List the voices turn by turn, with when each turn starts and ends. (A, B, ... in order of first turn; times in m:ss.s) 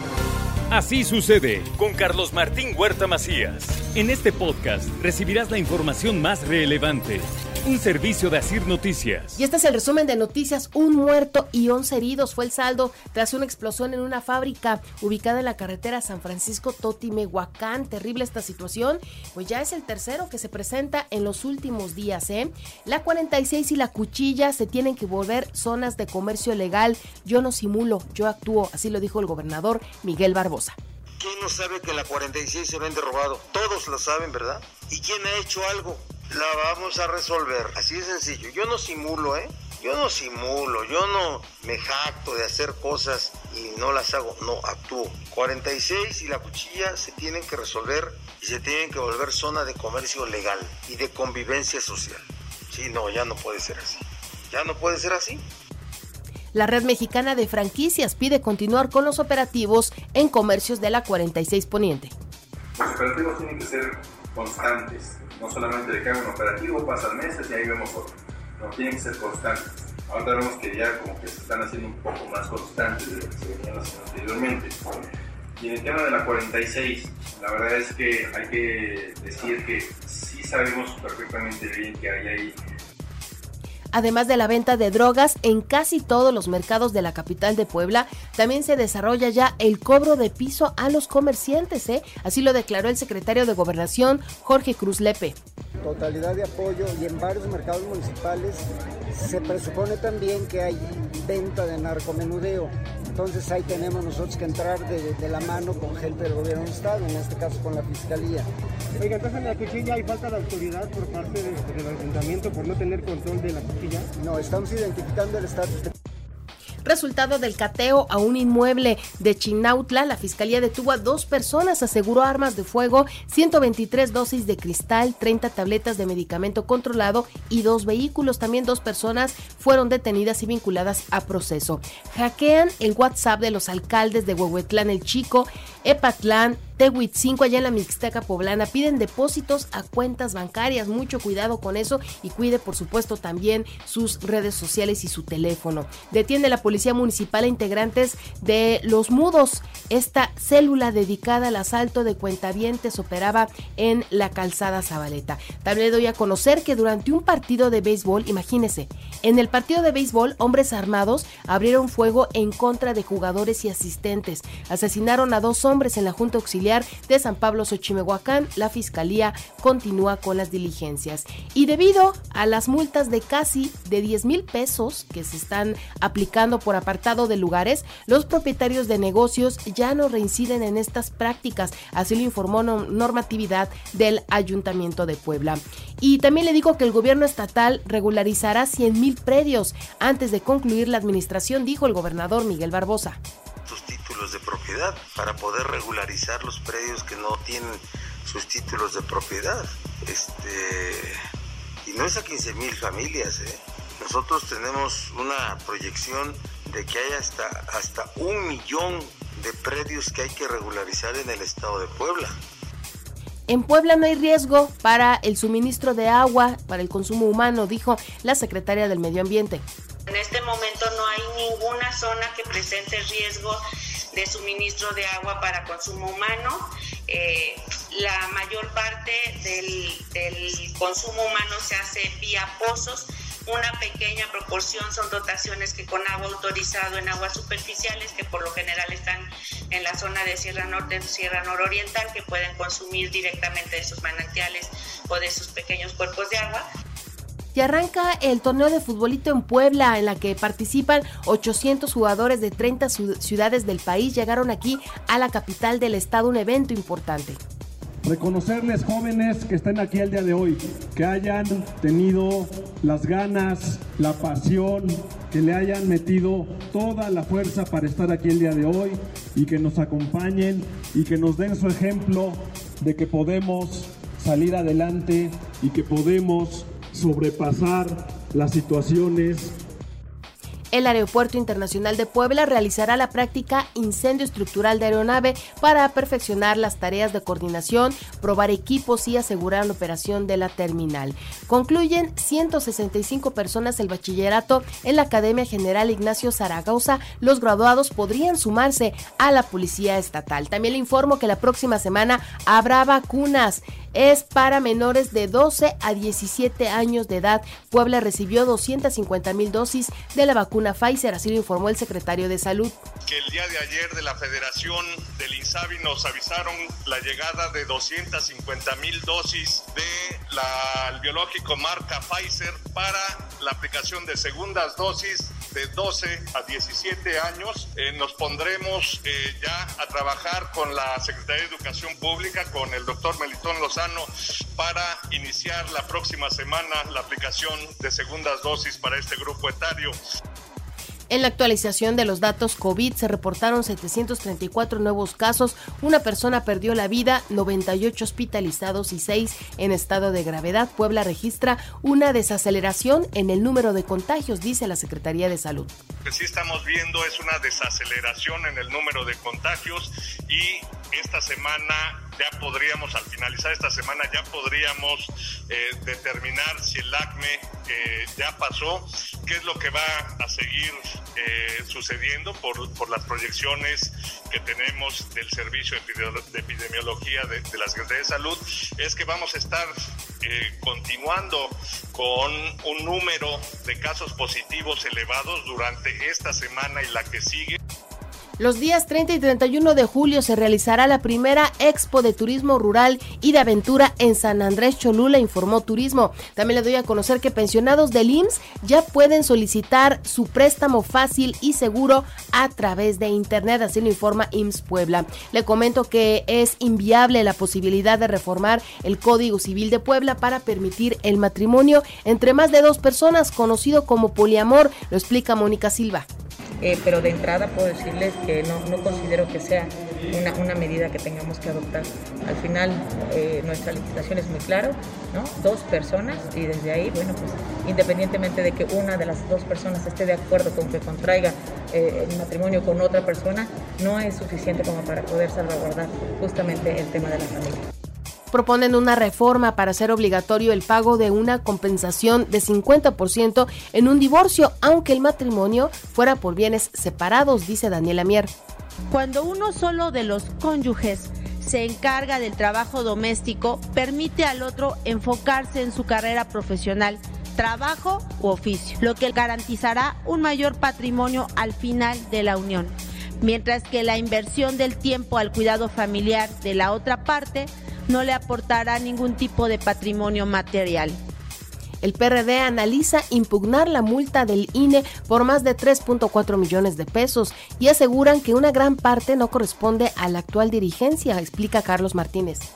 0:00.7-0:09.3 A
0:09.4-0:30.8 B
0:31.2-0:55.4 C
0:56.5-1:02.1 B
1:02.8-1:14.8 D
1:15.6-1:22.6 D
1:23.9-1:35.4 B
1:35.8-1:48.5 E
1:49.0-1:54.1 F
1:54.2-1:55.9 E
1:56.8-3:13.2 B
3:13.6-3:21.2 C
3:21.8-3:32.4 C
3:33.5-3:39.6 B
3:40.1-4:06.7 G
4:07.5-4:17.4 B
4:18.0-4:39.5 H
4:40.7-5:12.8 B
5:13.1-5:34.1 I
5:34.6-5:39.9 I
5:41.1-5:55.7 B
5:56.1-6:19.7 I
6:20.2-6:27.6 I
6:28.4-6:56.1 B
6:56.6-7:17.6 J
7:18.3-7:28.3 B
7:28.9-7:51.0 K
7:51.8-8:02.5 B